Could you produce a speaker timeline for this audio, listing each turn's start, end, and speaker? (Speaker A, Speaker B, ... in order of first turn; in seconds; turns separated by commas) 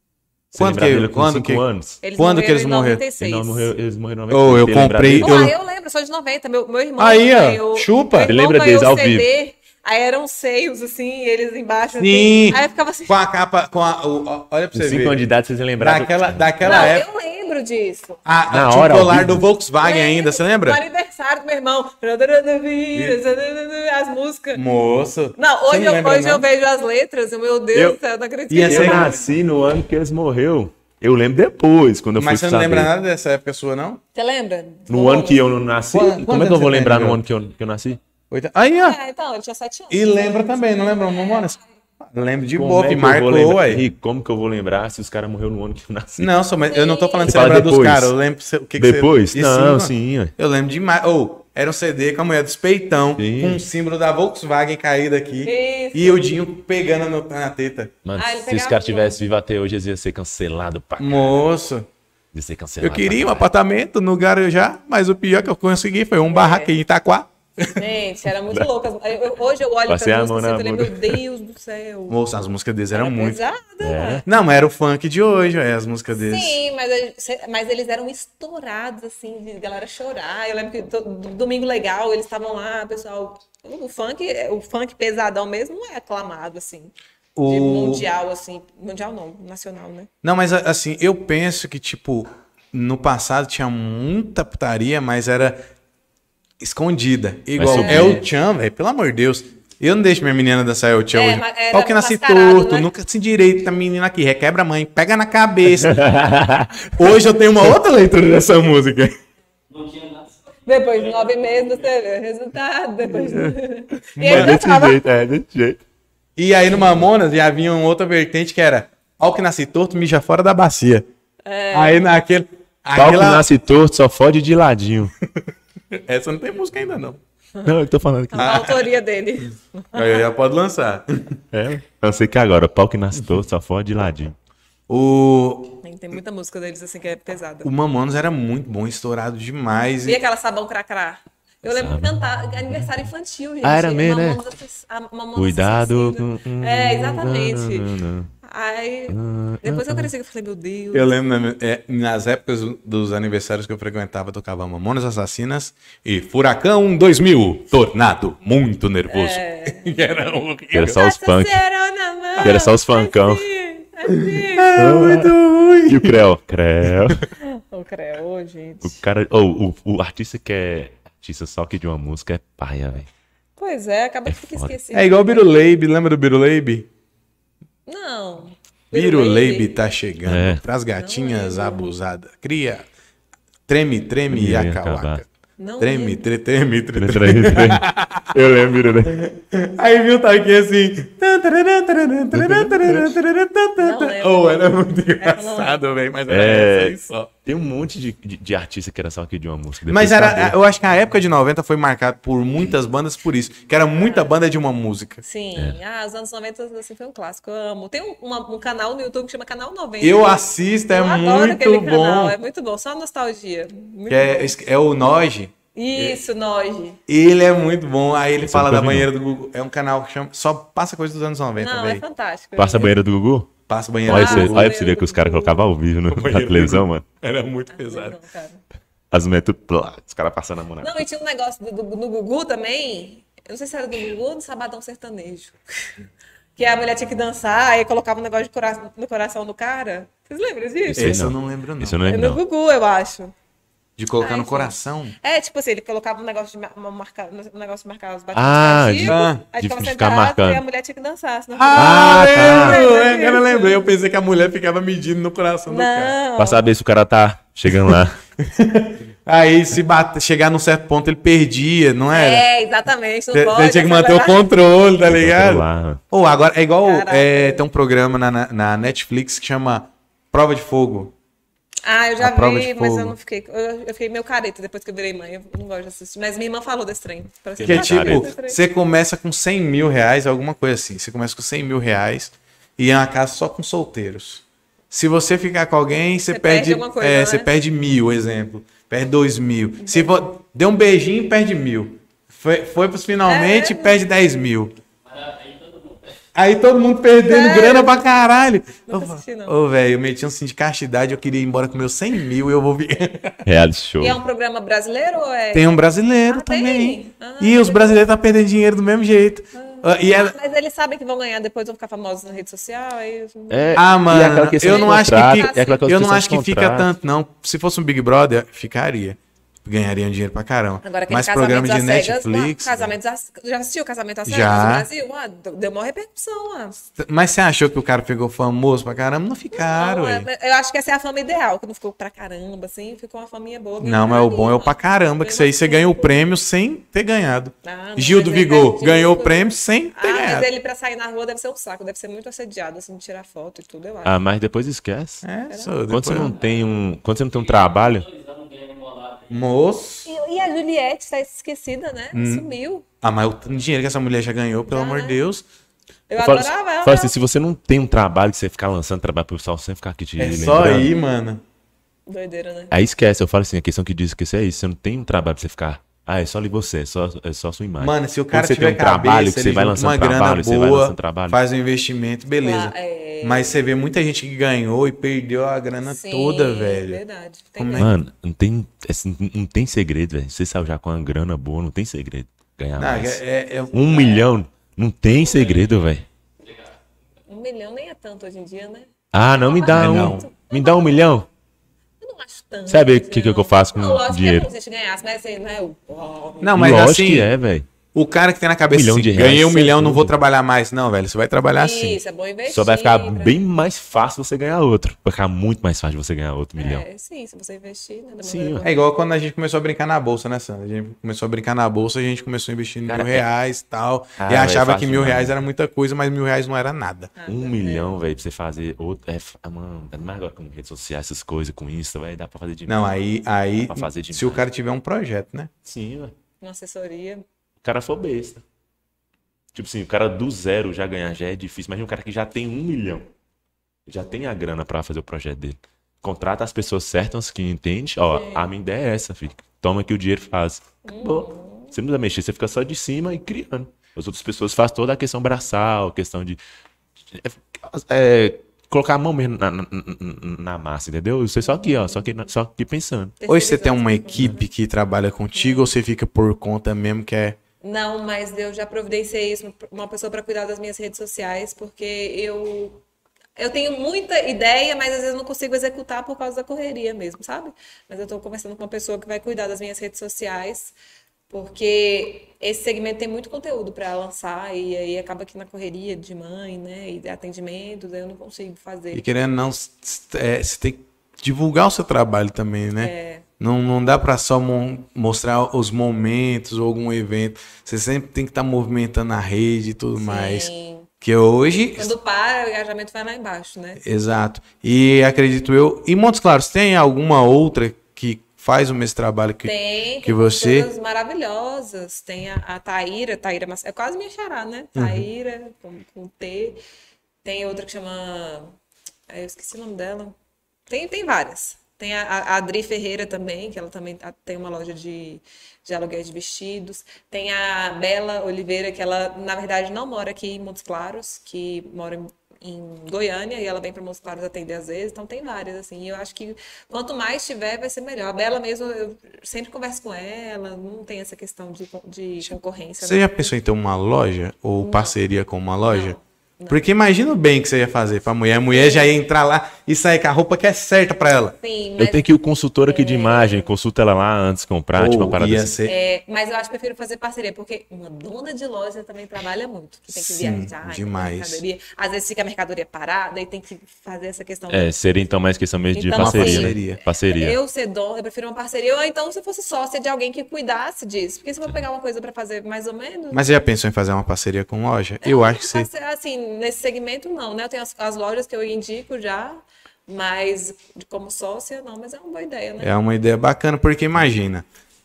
Speaker A: 0.5-2.0, Speaker B: 0.5-3.0, Speaker C: 2.0-3.7, Speaker A: 3.2-5.5, Speaker B: 4.3-5.5, Speaker C: 5.1-13.2, Speaker B: 7.0-8.3, Speaker A: 8.2-9.3, Speaker B: 11.9-15.2, Speaker A: 14.7-16.9, Speaker B: 15.8-17.1, Speaker C: 16.6-18.2, Speaker B: 18.2-20.8, Speaker A: 18.5-19.4, Speaker C: 19.8-24.6, Speaker B: 24.5-26.4, Speaker C: 25.4-29.1, Speaker A: 27.7-28.0, Speaker B: 28.5-29.2, Speaker A: 28.6-32.9, Speaker B: 32.1-34.0, Speaker C: 34.1-35.5, Speaker A: 34.9-38.0, Speaker B: 35.9-37.2, Speaker B: 38.3-39.0, Speaker C: 38.8-41.6, Speaker B: 39.9-43.8, Speaker A: 42.5-46.3, Speaker B: 46.2-57.9, Speaker C: 46.7-47.4, Speaker A: 47.2-48.1, Speaker A: 48.8-50.3, Speaker A: 53.2-53.6, Speaker C: 55.4-56.4, Speaker A: 58.0-61.3, Speaker C: 58.1-59.2, Speaker B: 61.0-61.9, Speaker A: 62.3-63.5, Speaker B: 62.8-67.8, Speaker C: 66.3-66.7, Speaker C: 67.7-72.2, Speaker A: 69.9-71.2, Speaker B: 72.1-73.4, Speaker C: 72.9-74.2, Speaker A: 73.8-74.2, Speaker B: 74.2-76.6, Speaker C: 76.2-86.9, Speaker B: 87.3-88.1, Speaker C: 87.5-90.1, Speaker B: 90.2-95.6, Speaker B: 96.6-106.0, Speaker A: 97.6-98.2, Speaker C: 97.6-98.2, Speaker C: 101.1-102.9, Speaker A: 105.8-106.8, Speaker B: 106.9-109.1, Speaker C: 110.6-115.0, Speaker B: 113.2-113.5, Speaker B: 114.1-114.6, Speaker A: 114.2-115.8, Speaker B: 116.4-121.0, Speaker C: 121.4-122.1, Speaker B: 121.7-123.4, Speaker A: 123.0-125.1, Speaker B: 126.0-127.2, Speaker A: 127.6-128.7, Speaker C: 128.3-130.2, Speaker B: 128.4-128.8, Speaker B: 129.9-131.4, Speaker A: 131.5-134.3, Speaker B: 134.9-135.8, Speaker C: 135.8-137.7, Speaker B: 137.6-140.2, Speaker C: 140.0-147.9, Speaker A: 141.6-142.7, Speaker A: 143.6-144.4, Speaker A: 145.3-148.3, Speaker C: 148.4-151.1, Speaker A: 149.1-150.1, Speaker B: 150.9-161.0, Speaker C: 159.1-160.2, Speaker A: 160.7-161.6, Speaker C: 160.9-164.7, Speaker A: 162.4-163.5, Speaker B: 164.1-166.2, Speaker A: 164.8-165.3, Speaker A: 165.8-167.2, Speaker C: 167.4-169.0, Speaker A: 168.8-173.1, Speaker C: 173.6-175.5, Speaker A: 174.2-174.7, Speaker B: 174.9-176.9, Speaker C: 177.8-179.8, Speaker B: 178.9-182.9, Speaker A: 180.2-180.6, Speaker C: 181.0-181.9, Speaker B: 183.7-185.3, Speaker A: 184.3-185.2, Speaker C: 185.6-186.2, Speaker B: 185.8-188.3, Speaker A: 186.9-189.3, Speaker B: 189.1-197.3, Speaker A: 192.3-193.1, Speaker C: 193.8-194.6, Speaker C: 195.2-195.8, Speaker A: 196.3-200.5, Speaker B: 199.9-205.2, Speaker C: 204.0-204.3, Speaker C: 205.2-210.3, Speaker B: 210.0-212.3, Speaker C: 210.9-214.5, Speaker B: 214.1-216.2, Speaker C: 215.7-217.0, Speaker B: 217.1-222.0, Speaker A: 218.4-219.1, Speaker C: 221.6-222.9, Speaker A: 222.6-223.5, Speaker B: 223.7-224.6, Speaker A: 224.1-227.0, Speaker C: 224.1-225.6, Speaker B: 226.1-228.2, Speaker C: 227.7-228.6, Speaker A: 229.1-230.9, Speaker C: 230.8-241.3, Speaker A: 240.8-242.4, Speaker B: 241.0-242.0, Speaker C: 242.1-243.3, Speaker B: 244.0-245.1, Speaker C: 244.2-253.8, Speaker A: 248.3-250.6, Speaker B: 249.1-249.4, Speaker B: 251.6-256.1, Speaker A: 251.7-252.9, Speaker C: 255.7-256.6, Speaker A: 256.4-258.2, Speaker B: 258.4-262.4, Speaker C: 262.1-264.5, Speaker B: 263.3-271.1, Speaker A: 265.0-266.0, Speaker C: 266.8-267.6, Speaker C: 271.8-278.6, Speaker B: 272.2-273.1, Speaker A: 277.6-278.3, Speaker B: 277.6-294.7, Speaker C: 286.3-287.5, Speaker C: 293.2-294.0, Speaker B: 296.3-303.4, Speaker C: 297.2-298.0, Speaker C: 298.9-299.5, Speaker A: 303.4-304.2, Speaker C: 304.0-308.1, Speaker B: 305.5-310.3, Speaker C: 309.5-313.9, Speaker A: 313.5-316.9, Speaker B: 313.8-322.9, Speaker C: 314.6-315.9, Speaker C: 320.8-326.8, Speaker B: 324.2-324.9, Speaker B: 327.0-330.3, Speaker C: 329.5-336.2, Speaker B: 333.8-340.5, Speaker C: 337.6-344.1, Speaker A: 344.0-345.2, Speaker B: 345.2-346.3, Speaker C: 345.5-346.2, Speaker A: 345.9-348.1, Speaker B: 349.3-350.1, Speaker C: 350.1-352.8, Speaker B: 352.1-352.4, Speaker B: 353.0-355.4, Speaker C: 354.7-355.2, Speaker C: 356.1-357.1, Speaker A: 356.2-360.9, Speaker B: 360.2-361.4, Speaker C: 362.1-362.7, Speaker A: 362.7-371.4, Speaker B: 367.8-377.0, Speaker C: 372.4-373.6, Speaker C: 375.8-377.9, Speaker B: 377.6-377.9, Speaker A: 377.8-386.1, Speaker B: 382.8-384.2, Speaker C: 387.3-390.9, Speaker A: 389.1-391.3, Speaker B: 389.7-390.2, Speaker C: 392.0-396.5, Speaker A: 392.7-394.5, Speaker B: 396.4-397.3, Speaker A: 396.6-397.7, Speaker B: 397.9-402.0, Speaker A: 398.7-400.2, Speaker C: 401.6-403.4, Speaker A: 402.5-406.9, Speaker C: 406.6-408.8, Speaker A: 408.2-408.6, Speaker B: 408.6-417.1, Speaker A: 412.9-413.2, Speaker A: 414.2-415.4, Speaker C: 417.2-417.9, Speaker A: 417.3-422.8, Speaker B: 422.6-425.5, Speaker A: 423.7-424.4, Speaker A: 425.6-426.1, Speaker C: 426.4-427.2, Speaker A: 427.6-428.4, Speaker A: 429.5-433.1, Speaker A: 433.9-446.4, Speaker C: 438.1-438.5, Speaker C: 440.8-441.7, Speaker A: 447.1-453.2, Speaker C: 451.4-452.1, Speaker C: 453.2-454.5, Speaker B: 453.3-457.4, Speaker C: 455.3-455.7, Speaker C: 457.6-462.8, Speaker C: 463.4-470.7, Speaker C: 471.3-479.0, Speaker B: 478.9-490.5, Speaker C: 482.8-483.2, Speaker C: 490.0-490.9, Speaker B: 491.0-491.9, Speaker C: 491.8-493.8, Speaker B: 493.8-500.7, Speaker C: 499.4-506.6, Speaker B: 504.8-505.1, Speaker C: 507.2-508.5, Speaker C: 509.1-510.1, Speaker C: 510.7-533.3, Speaker B: 532.8-536.0, Speaker C: 534.6-535.0, Speaker C: 535.6-536.6, Speaker B: 536.5-541.4, Speaker C: 538.5-539.0, Speaker C: 541.4-542.0, Speaker A: 541.8-545.5, Speaker C: 542.6-543.5, Speaker B: 544.7-545.7, Speaker C: 545.6-554.7, Speaker B: 549.9-551.4, Speaker A: 554.5-557.4, Speaker C: 555.7-563.2, Speaker B: 555.9-556.8, Speaker B: 563.1-565.7, Speaker C: 565.0-572.7, Speaker B: 572.6-574.4